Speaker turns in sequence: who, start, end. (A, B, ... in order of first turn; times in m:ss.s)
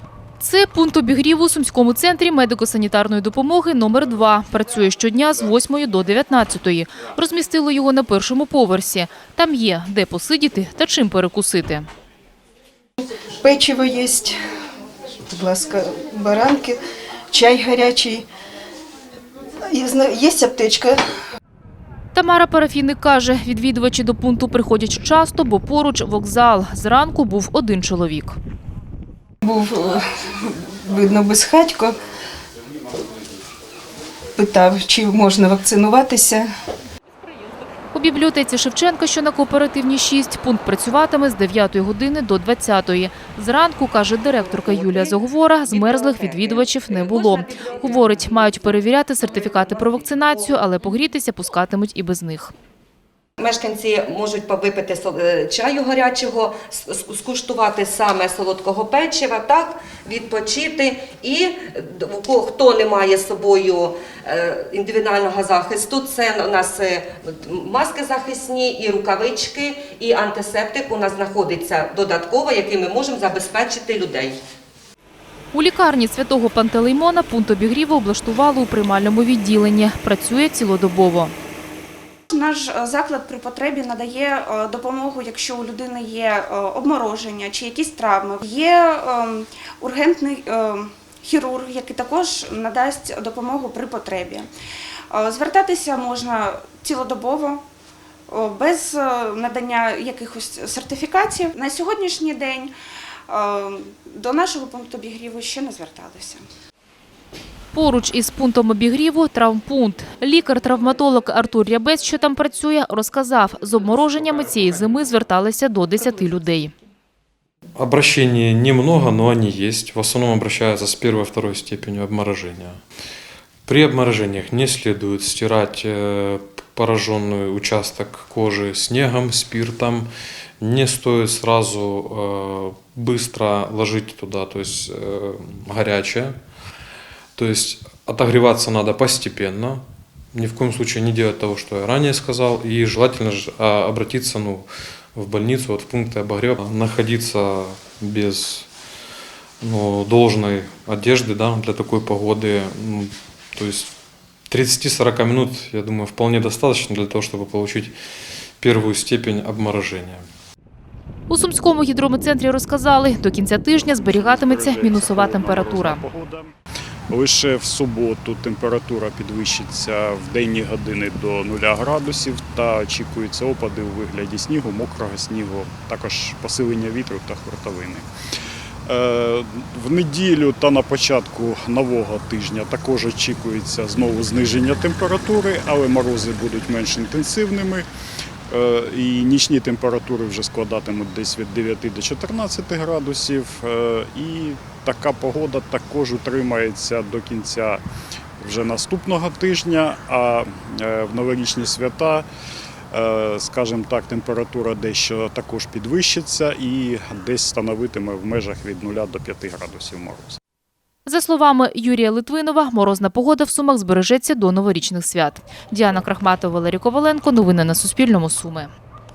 0:00.4-0:11.9 A
0:13.4-0:14.4 B
0:15.3-0:16.8 B
0:17.3-0:18.2 B
0:19.7-0:21.0 B
0:22.1-0:28.4 A
0:29.4-0:31.9 B
0:34.4-0:36.5 B
0:37.9-0:52.5 A
0:44.4-0:48.8 C
0:49.4-0:50.5 C
0:53.4-1:14.4 C
1:15.5-1:21.3 A
1:22.3-1:34.5 D
1:35.1-1:37.6 D
1:38.3-1:42.7 D
1:43.3-1:46.4 D
1:47.7-1:56.7 A
1:57.8-2:02.8 E
2:03.6-2:10.1 E
2:10.6-2:16.4 E
2:17.4-2:28.7 E
2:29.6-2:33.9 E
2:34.5-2:37.9 E
2:38.6-2:40.3 E
2:41.3-2:46.0 A
2:43.8-2:46.5 F
2:47.1-2:58.1 F
2:58.8-3:07.9 F
3:08.5-3:17.8 F
3:18.4-3:22.2 F
3:22.9-3:30.4 F
3:31.0-3:38.7 A